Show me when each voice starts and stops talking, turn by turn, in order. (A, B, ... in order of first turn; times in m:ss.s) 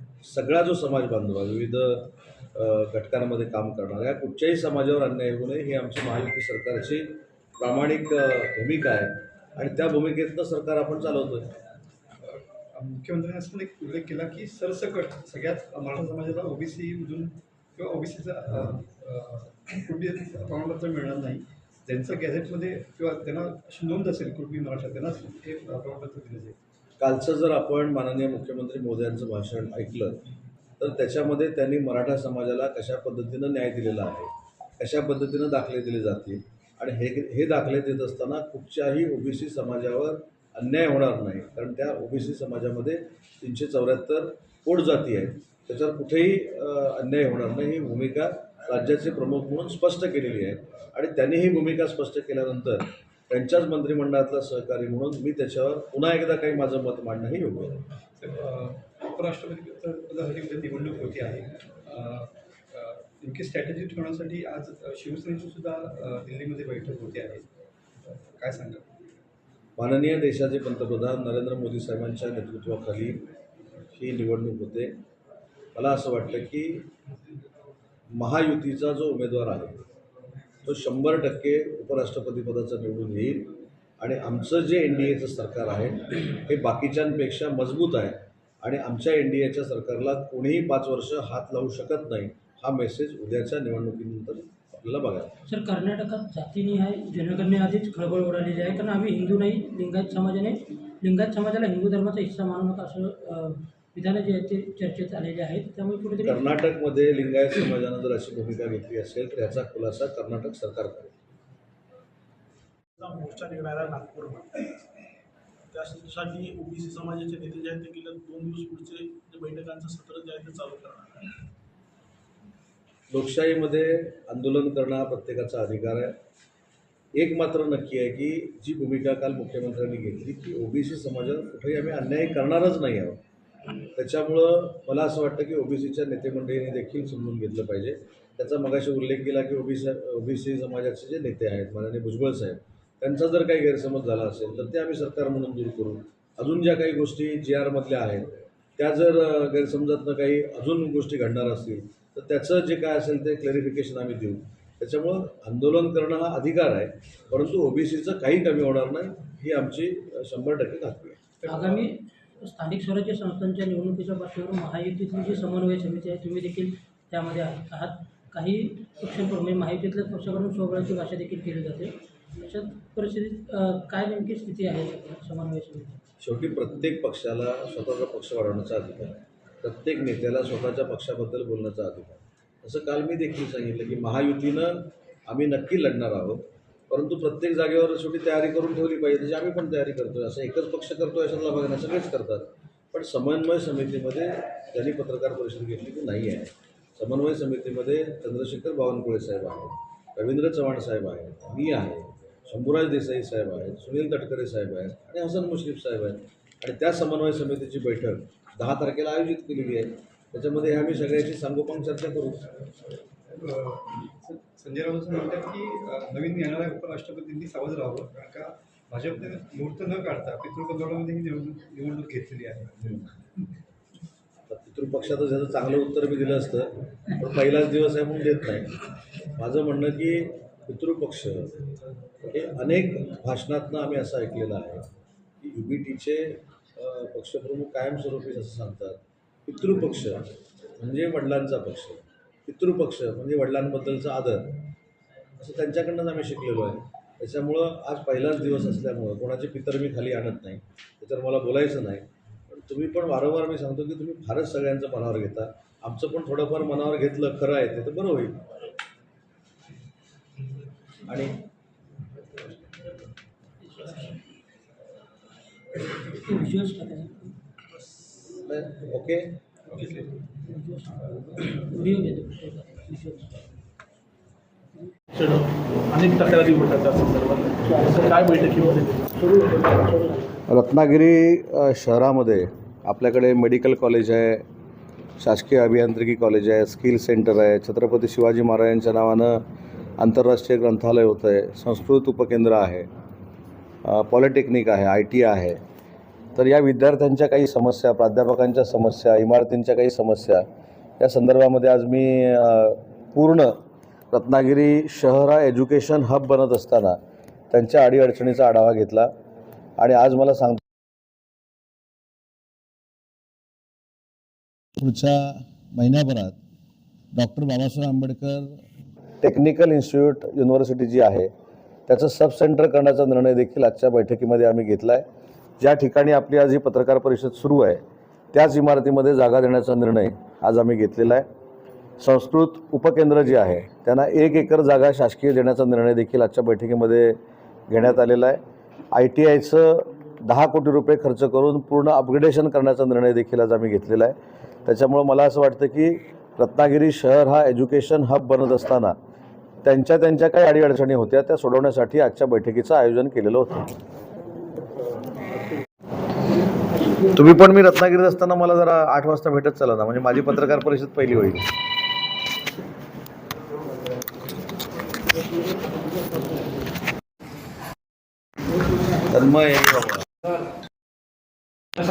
0:00.2-0:11.5 A
0:12.2-0:26.6 B
0:27.0-0:30.2 A
0:30.8-0:57.8 A
0:58.2-1:07.5 B
1:08.1-1:08.8 B
1:09.8-1:13.2 A
1:13.9-1:14.9 A
1:15.7-1:16.9 A
1:18.1-1:19.8 A
1:20.6-1:35.3 A
1:35.4-1:46.4 C
1:46.2-1:51.1 A
1:53.0-1:54.8 D
1:55.7-2:01.3 D
2:03.1-2:06.2 A
2:07.1-2:13.2 A
2:14.0-2:41.2 A
2:41.4-2:41.8 B
2:41.4-2:56.0 C
2:56.2-3:32.5 A
3:33.3-3:42.9 B
3:44.5-3:48.8 A
3:49.3-3:51.5 A
3:52.2-3:54.8 A
3:55.4-4:04.6 A
4:05.4-4:18.4 A
4:21.0-4:21.4 A
4:23.6-4:24.1 C
4:26.1-4:27.3 C
4:28.3-4:29.4 A
4:30.4-4:33.4 C
4:35.1-4:39.2 D
4:37.7-4:38.1 C
4:39.2-4:40.4 C
4:40.5-4:44.4 A
4:45.2-4:49.4 A
4:50.0-4:52.9 A
4:53.8-4:55.6 A
4:56.4-5:00.4 A
5:01.0-5:03.6 A
5:04.1-5:07.0 A
5:07.5-5:09.1 A
5:09.8-5:10.6 A
5:14.8-5:16.4 A
5:17.1-5:18.6 A
5:19.2-5:21.3 A
5:21.9-5:25.0 A
5:25.6-5:27.8 A
5:28.3-5:31.2 A
5:32.0-5:38.4 A
5:38.9-5:49.0 A
5:49.6-5:53.7 A
5:57.1-6:01.4 A
6:09.1-6:10.0 A